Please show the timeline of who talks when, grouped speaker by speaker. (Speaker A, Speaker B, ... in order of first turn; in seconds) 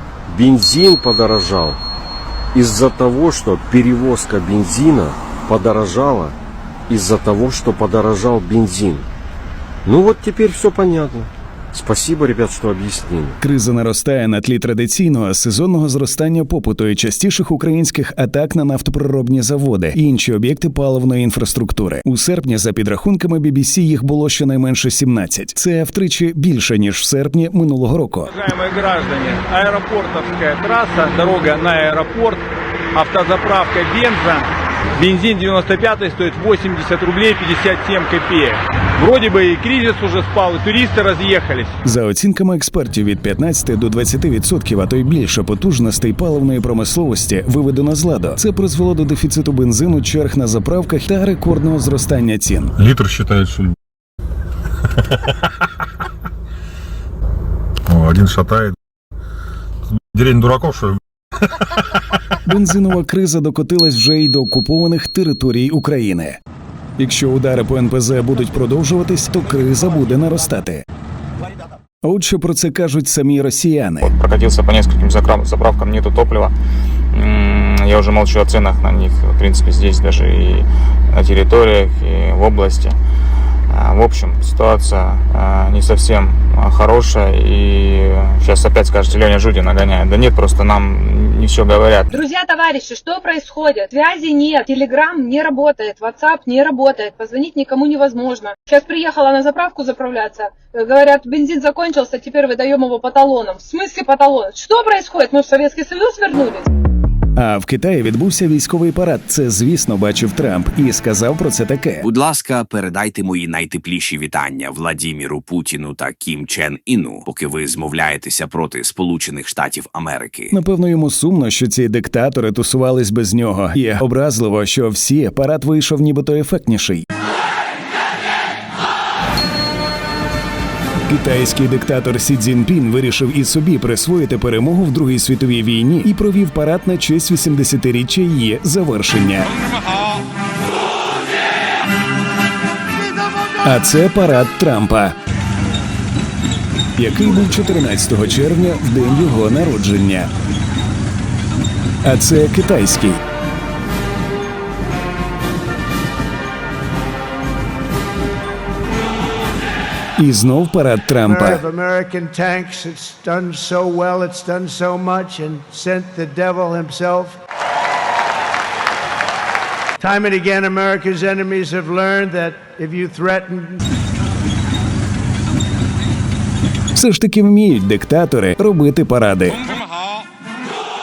Speaker A: 0.3-1.8, 2.5-6.3, 6.9-9.1, 9.8-13.4
Speaker B: 13.4-28.3, 41.8-52.7, 62.4-66.4, 67.0-70.8, 72.0-74.1, 107.3-112.0, 120.5-127.0, 131.1-139.5, 143.6-145.1, 147.0-150.3, 152.0-153.2, 160.2-161.6, 176.9-179.6
Speaker C: 28.5-32.4, 33.0-34.4, 35.0-41.7
Speaker D: 52.8-53.7, 57.9-58.7, 60.1-61.0
Speaker E: 74.0-76.5, 77.1-83.0, 83.7-92.2
Speaker F: 92.1-106.7
Speaker G: 112.0-120.5
Speaker H: 161.2-167.4, 170.0-173.8